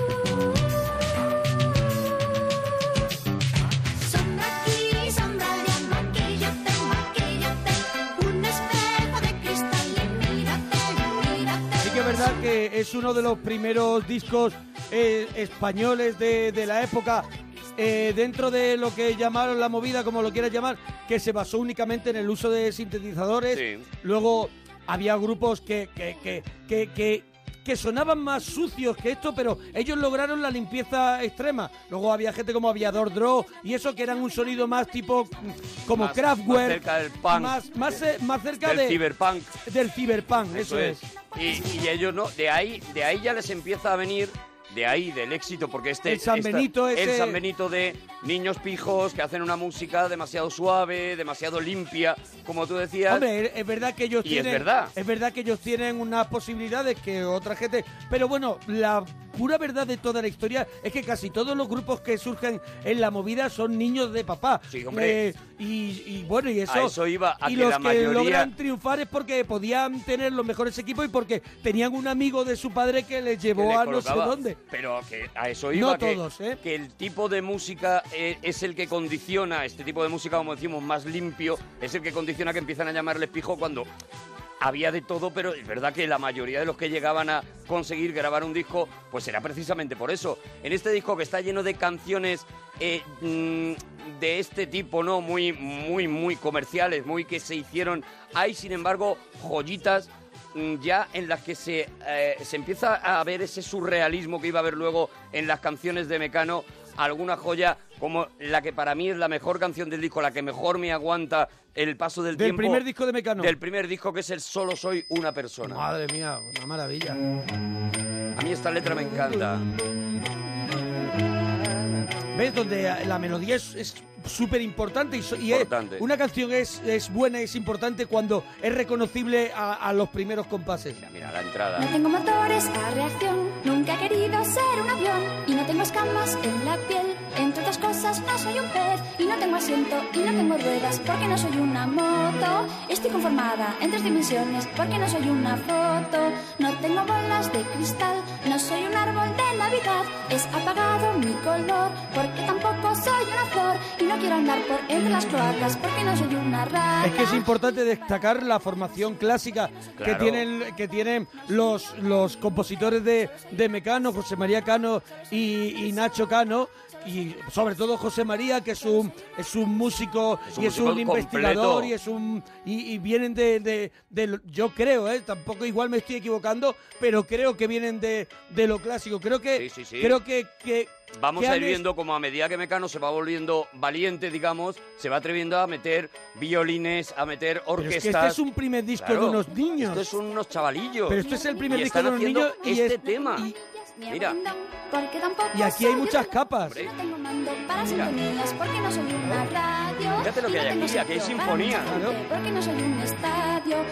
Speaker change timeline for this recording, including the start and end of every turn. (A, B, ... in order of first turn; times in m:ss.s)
0:04.0-0:12.3 A
0:11.8-0:39.0 B
0:23.5-0:23.9 C
0:35.9-0:37.7 C
0:38.6-0:39.5 C
0:39.6-0:41.1 B
0:40.5-0:53.3 C
0:46.1-0:47.4 B
0:53.1-1:14.6 B
0:54.2-0:54.9 C
1:04.7-1:05.2 C
1:06.7-1:08.5 C
1:13.6-1:23.9 C
1:15.7-1:16.6 B
1:24.6-1:52.8 C
1:52.3-1:53.6 B
1:53.4-1:55.8 C
1:55.6-1:57.2 B
1:58.4-1:59.7 C
2:02.3-2:11.0 B
2:05.4-2:06.0 C
2:11.0-2:11.9 C
2:11.8-2:37.3 A
2:37.0-3:01.8 B
2:40.0-2:40.4 C
2:50.5-2:51.9 C
2:59.6-3:00.2 C
3:01.1-3:08.4 C
3:07.8-3:10.1 B
3:09.0-3:13.5 C
3:11.1-3:13.6 B
3:14.1-3:14.4 C
3:14.2-3:15.4 A
3:15.5-3:16.8 B
3:16.6-3:16.9 C
3:17.1-3:19.9 A
3:17.8-3:18.1 C
3:20.2-3:22.1 C
3:20.5-3:20.9 A
3:21.8-3:22.2 B